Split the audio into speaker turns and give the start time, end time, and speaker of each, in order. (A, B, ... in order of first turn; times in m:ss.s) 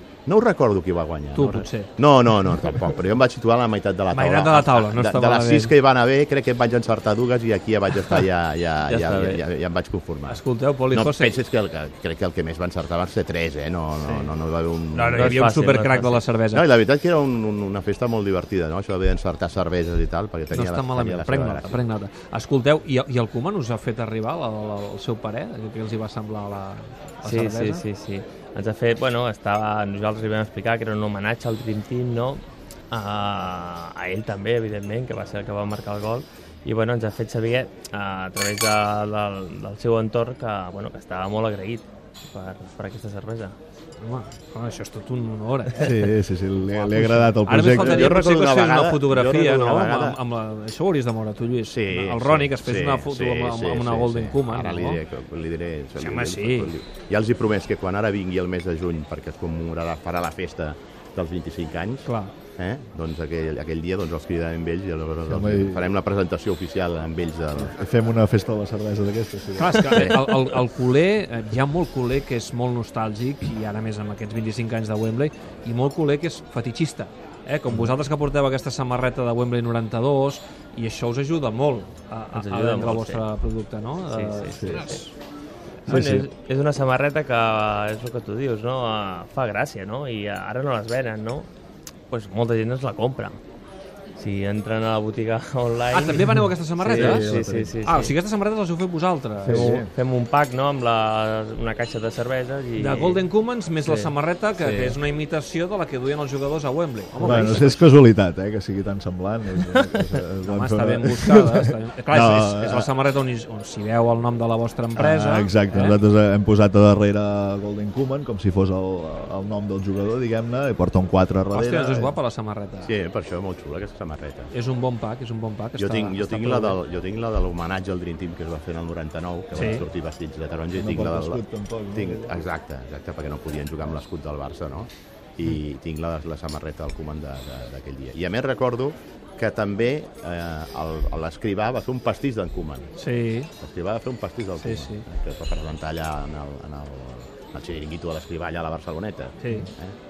0:00.3-0:15.5 A
0:01.4-0:01.9 B
0:04.1-0:05.7 B
0:08.8-0:09.4 C
0:10.3-0:11.4 B
0:14.0-0:14.3 B
0:14.9-0:16.7 B
0:15.1-0:16.2 C
0:16.5-0:21.8 A
0:20.5-0:27.8 B
0:27.2-0:43.6 C
0:44.0-0:46.1 B
0:45.8-0:48.2 D
0:46.7-0:55.0 B
0:47.8-0:50.2 A
0:51.7-1:02.1 A
0:56.0-0:56.7 B
1:02.0-1:02.3 B
1:02.6-1:07.8 A
1:05.3-1:05.9 D
1:07.6-1:10.2 D
1:09.6-1:25.1 B
1:10.0-1:10.5 A
1:17.7-1:17.9 D
1:22.3-1:23.2 C
1:24.1-1:25.0 C
1:24.5-1:24.9 D
1:25.9-1:26.1 B
1:25.9-1:26.3 D
1:25.9-1:31.5 C
1:32.1-1:33.4 C
1:34.2-1:38.1 C
1:35.9-1:39.8 B
1:36.8-1:37.8 D
1:39.4-1:39.9 D
1:39.4-1:43.2 C
1:42.8-1:47.9 B
1:43.8-1:45.0 C
1:47.2-1:52.9 D
1:50.4-1:56.0 B
1:55.0-2:02.1 D
2:01.5-2:02.9 B
2:01.6-2:02.1 A
2:02.8-2:04.5 A
2:04.5-2:06.8 B
2:05.8-2:11.4 A
2:09.5-2:09.8 B
2:10.8-2:12.4 D
2:11.9-2:22.9 A
2:23.0-2:23.5 B
2:23.6-2:30.0 A
2:24.6-2:25.0 B
2:29.4-2:29.7 B